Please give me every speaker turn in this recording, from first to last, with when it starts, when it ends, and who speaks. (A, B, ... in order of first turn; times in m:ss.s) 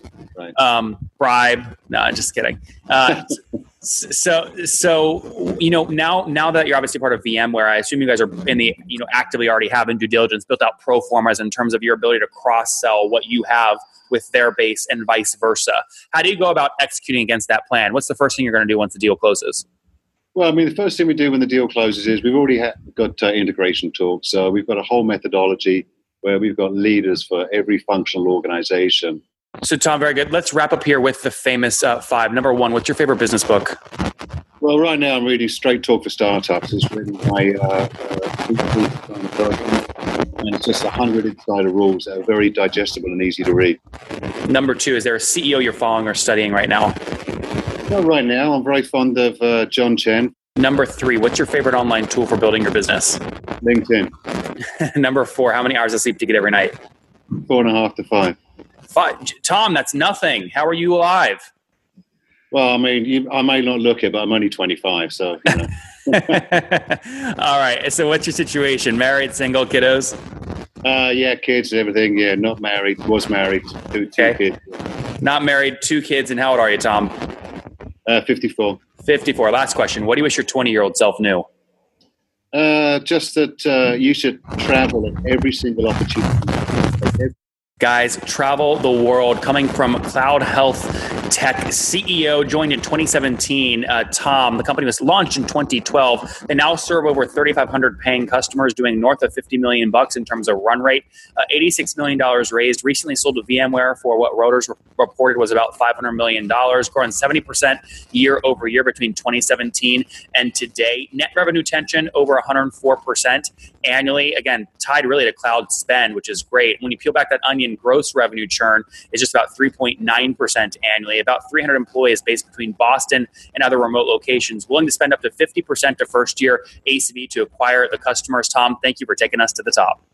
0:00.5-0:19.6 A
0:20.4-0:29.2 B
0:29.6-0:33.8 A
0:34.6-0:39.9 B
0:40.4-0:43.8 B
0:44.4-0:47.0 A
0:47.9-0:50.3 B
0:50.6-0:53.2 A
0:53.6-0:54.1 B
0:54.6-0:56.7 A
0:57.4-0:58.4 B
0:58.9-1:01.5 A
1:02.5-1:06.3 B
1:06.1-1:10.2 A
1:10.8-1:14.8 B
1:15.2-1:17.2 A
1:18.0-1:18.8 B
1:19.0-1:21.5 A
1:22.5-1:27.3 B
1:27.8-2:10.0 A